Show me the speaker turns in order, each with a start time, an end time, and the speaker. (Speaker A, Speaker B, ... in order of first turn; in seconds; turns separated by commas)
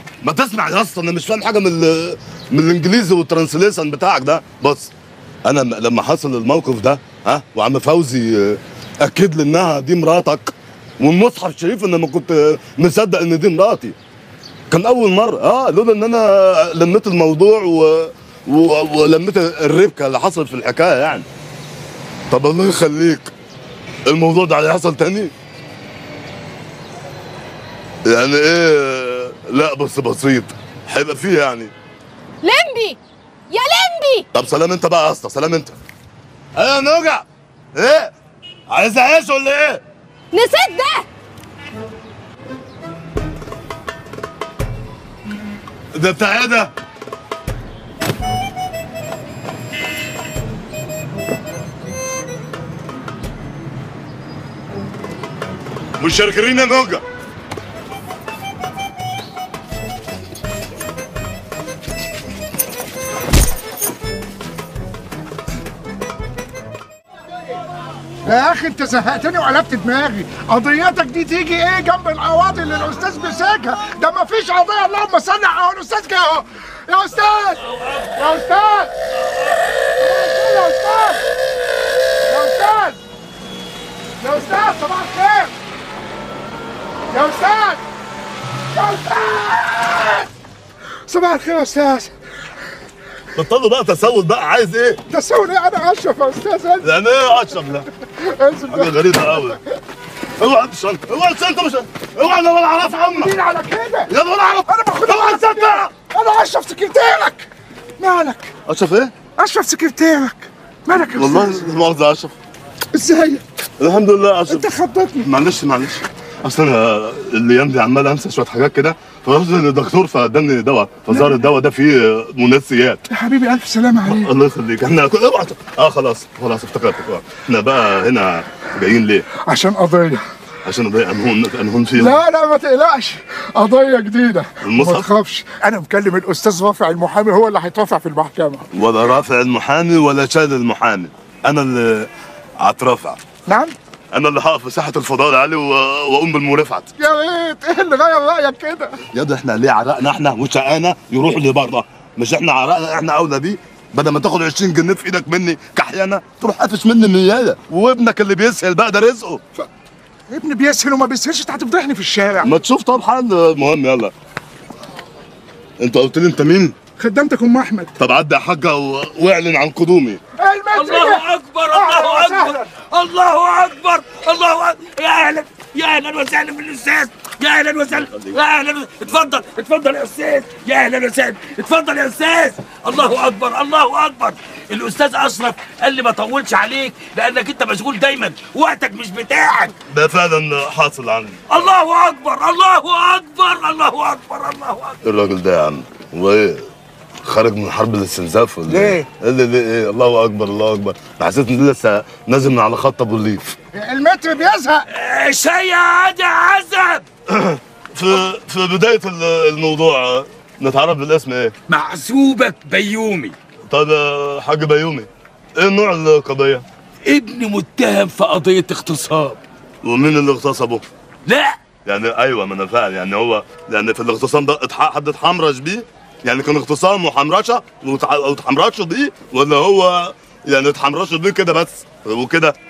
Speaker A: 0.2-4.9, Speaker A: 5.4-14.0, Speaker A: 14.7-21.3, Speaker A: 22.3-23.3, Speaker A: 24.1-25.3, Speaker A: 28.0-31.7, Speaker B: 32.4-33.0, Speaker B: 33.5-34.2, Speaker A: 34.3-35.8, Speaker A: 36.5-38.1, Speaker A: 38.7-39.8, Speaker B: 40.3-41.1, Speaker A: 45.9-46.7, Speaker A: 56.0-57.0, Speaker C: 68.2-77.6, Speaker D: 77.7-78.4, Speaker C: 78.1-78.9, Speaker D: 79.2-79.7, Speaker C: 79.8-81.2, Speaker C: 82.3-83.0, Speaker C: 84.2-85.5, Speaker C: 87.1-87.8, Speaker C: 88.7-90.3, Speaker C: 91.1-92.1, Speaker A: 93.3-95.0, Speaker C: 95.1-96.9, Speaker A: 96.8-97.9, Speaker C: 98.0-99.6, Speaker A: 98.7-99.6, Speaker A: 100.4-103.3, Speaker C: 103.1-104.1, Speaker A: 104.1-105.9, Speaker C: 104.7-108.5, Speaker A: 108.7-109.1, Speaker C: 109.4-111.6, Speaker A: 111.2-112.3, Speaker C: 112.9-113.4, Speaker A: 113.8-114.7, Speaker C: 114.5-115.3, Speaker A: 115.2-123.0, Speaker C: 123.1-124.3, Speaker A: 124.0-129.3, Speaker C: 129.4-130.2, Speaker A: 130.6-132.2, Speaker C: 131.9-138.6, Speaker A: 134.6-135.1, Speaker A: 138.7-143.2, Speaker C: 143.5-143.8, Speaker A: 144.1-146.9, Speaker C: 147.0-149.0, Speaker A: 149.1-159.4, Speaker C: 160.3-162.5, Speaker A: 162.4-164.1, Speaker A: 165.8-166.8, Speaker C: 167.0-167.9, Speaker A: 168.0-170.2, Speaker C: 170.4-172.7, Speaker D: 170.7-189.7, Speaker A: 178.1-178.3, Speaker A: 189.9-191.4, Speaker D: 191.5-195.0, Speaker A: 195.0-196.6, Speaker A: 197.2-203.6, Speaker C: 198.7-199.0, Speaker C: 203.7-204.8, Speaker D: 204.9-207.0, Speaker A: 207.3-211.5, Speaker D: 211.7-213.3, Speaker A: 213.7-216.6, Speaker D: 217.1-219.4, Speaker A: 219.8-220.8, Speaker D: 221.2-221.6, Speaker A: 221.8-232.6